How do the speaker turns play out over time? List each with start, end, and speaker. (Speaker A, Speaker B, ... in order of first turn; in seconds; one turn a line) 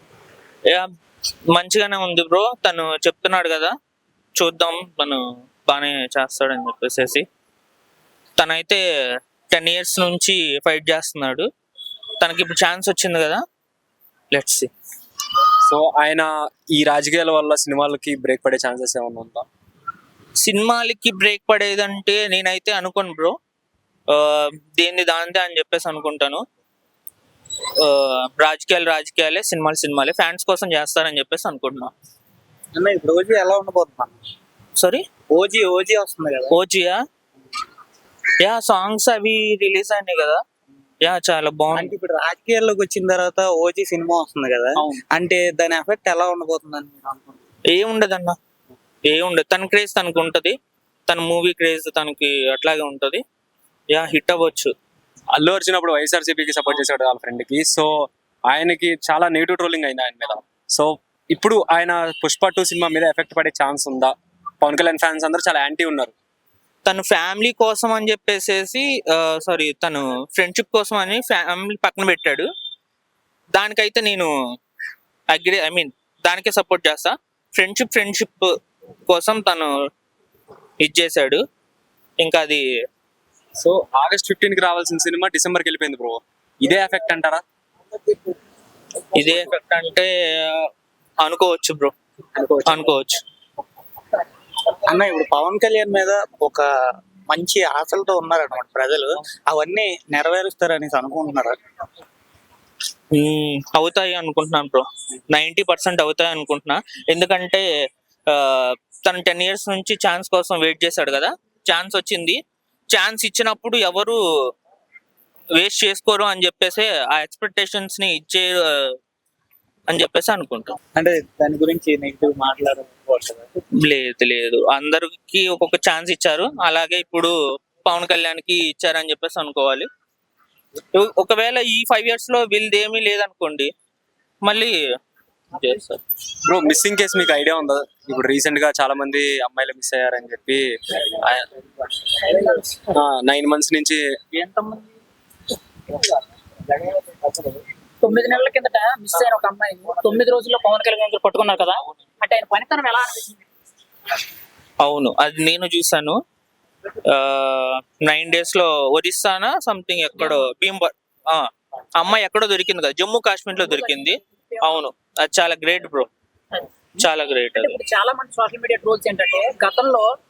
Speaker A: 1.5-3.7
Speaker A: 4.4-7.2
Speaker A: 8.4-8.8
Speaker A: 9.5-11.5
Speaker A: 12.2-13.4
Speaker A: 14.3-14.7
Speaker B: 15.7-19.4
Speaker A: 20.4-23.3
Speaker A: 24.1-26.4
Speaker A: 27.8-31.9
Speaker C: 32.7-34.1
Speaker A: 34.8-35.0
Speaker C: 35.3-36.5
Speaker A: 36.5-37.0
Speaker A: 38.4-40.4
Speaker A: 41.0-41.9
Speaker C: 41.7-47.4
Speaker A: 47.7-48.3
Speaker A: 49.1-50.5
Speaker A: 51.1-53.2
Speaker A: 53.9-54.7
Speaker B: 55.3-57.9
Speaker B: 58.5-66.1
Speaker A: 66.8-72.5
Speaker A: 73.5-74.3
Speaker A: 75.3-78.5
Speaker A: 79.1-79.7
Speaker A: 80.8-81.4
Speaker A: 82.2-82.6
Speaker B: 83.6-87.4
Speaker A: 89.1-90.7
Speaker A: 91.2-91.9
Speaker A: 92.6-93.2
Speaker C: 94.8-96.7
Speaker C: 97.3-101.5
Speaker A: 103.1-107.6
Speaker A: 108.3-112.4
Speaker A: 112.9-114.2
Speaker A: 115.6-119.0
Speaker A: 119.9-120.7
Speaker C: 121.0-123.5
Speaker A: 123.8-129.9
Speaker A: 130.9-133.7
Speaker A: 134.4-134.7
Speaker A: 135.5-136.0
Speaker B: 136.4-141.4
Speaker D: 142.3-142.6
Speaker B: 142.9-144.0
Speaker A: 144.4-144.8
Speaker D: 148.0-153.4
Speaker A: 154.8-156.2
Speaker A: 157.0-166.1
Speaker D: 163.7-164.1
Speaker A: 167.0-167.8
Speaker D: 167.5-170.1